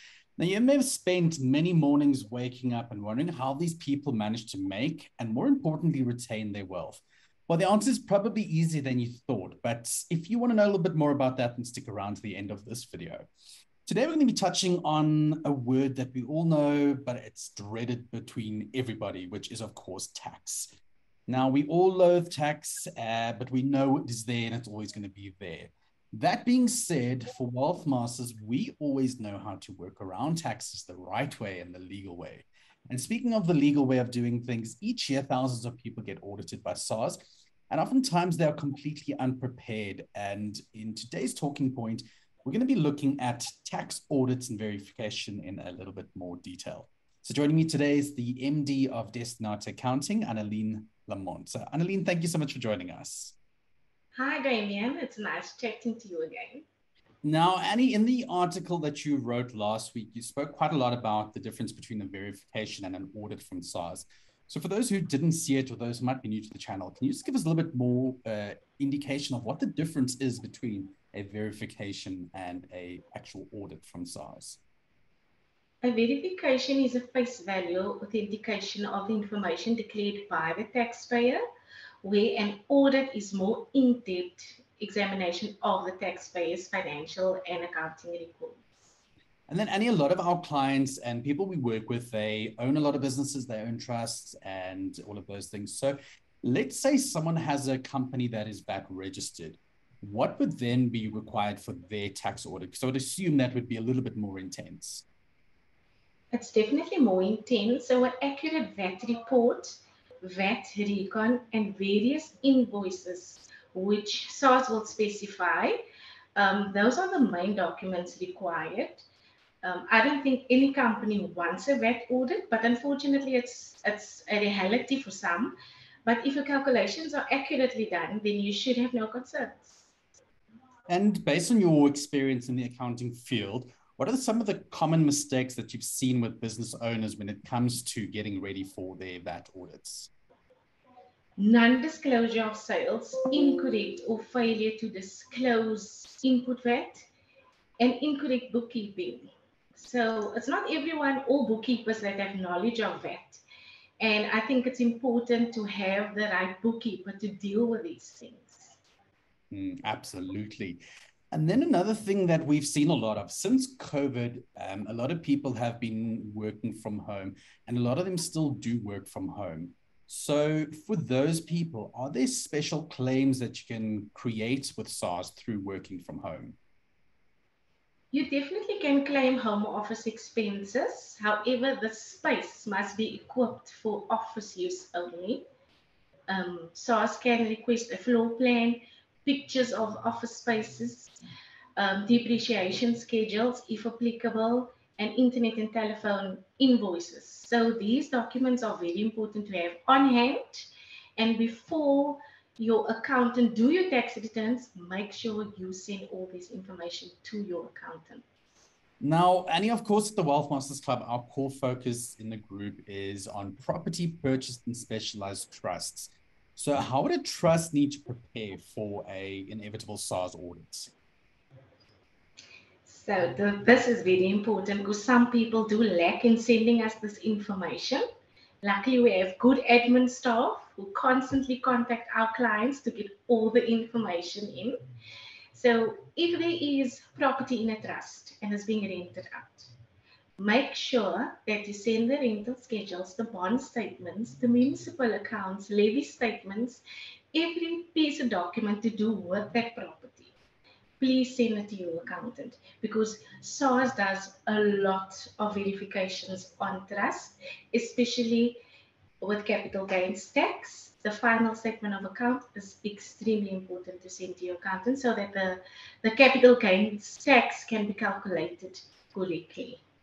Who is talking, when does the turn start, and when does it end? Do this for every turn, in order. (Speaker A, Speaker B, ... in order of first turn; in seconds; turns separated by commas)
Speaker A: 0.4-13.2, Speaker A: 13.8-20.7, Speaker A: 21.3-53.4, Speaker B: 54.1-56.6, Speaker A: 57.2-74.6, Speaker B: 75.8-81.4, Speaker B: 82.0-88.6, Speaker A: 89.5-105.0, Speaker B: 106.3-115.8, Speaker B: 116.3-119.0, Speaker B: 119.6-129.8, Speaker A: 130.9-140.1, Speaker B: 141.4-147.1, Speaker B: 147.8-153.4, Speaker B: 154.0-158.8, Speaker A: 159.5-160.8, Speaker A: 161.3-176.6, Speaker B: 178.1-185.4, Speaker B: 186.3-191.1, Speaker B: 191.8-208.2, Speaker A: 209.0-220.9, Speaker B: 222.8-228.0, Speaker B: 228.6-234.8, Speaker B: 235.5-239.7, Speaker B: 240.4-250.3, Speaker B: 251.0-258.6, Speaker B: 259.2-269.8